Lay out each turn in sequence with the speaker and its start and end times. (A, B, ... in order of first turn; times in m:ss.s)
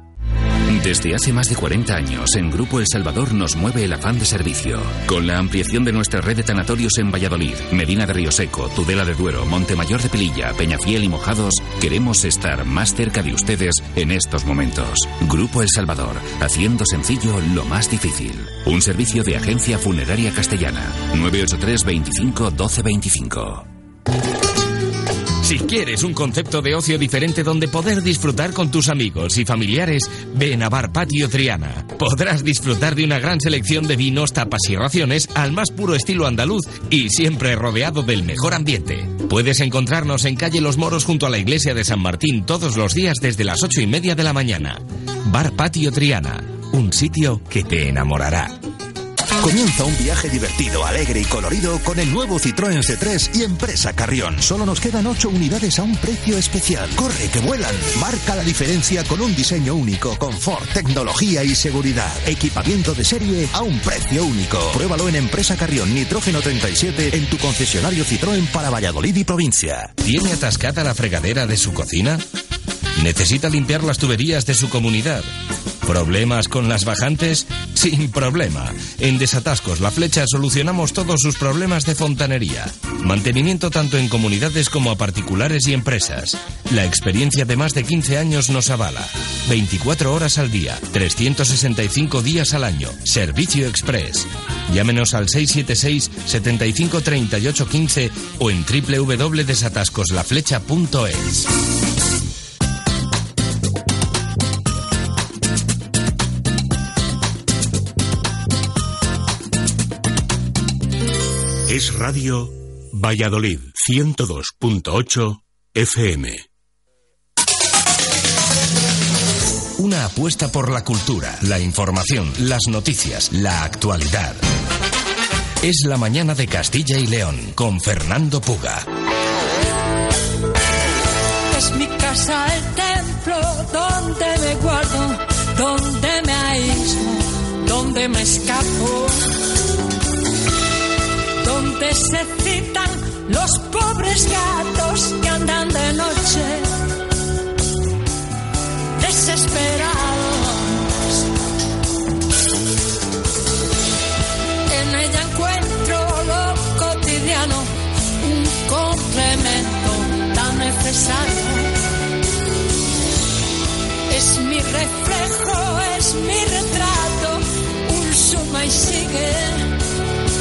0:00.7-0:23.6 A
0:25.4-0:48.5 B
0:49.4-1:09.9 C
1:10.0-1:12.2 B
1:13.0-1:15.3 B
1:15.8-1:41.5 B
1:51.7-1:56.4 D
1:59.8-2:04.4 B
2:05.6-2:08.8 B
2:11.5-2:19.2 E
2:21.4-2:26.7 E
2:29.0-2:31.0 E
2:34.7-2:41.7 E
2:44.1-2:49.7 E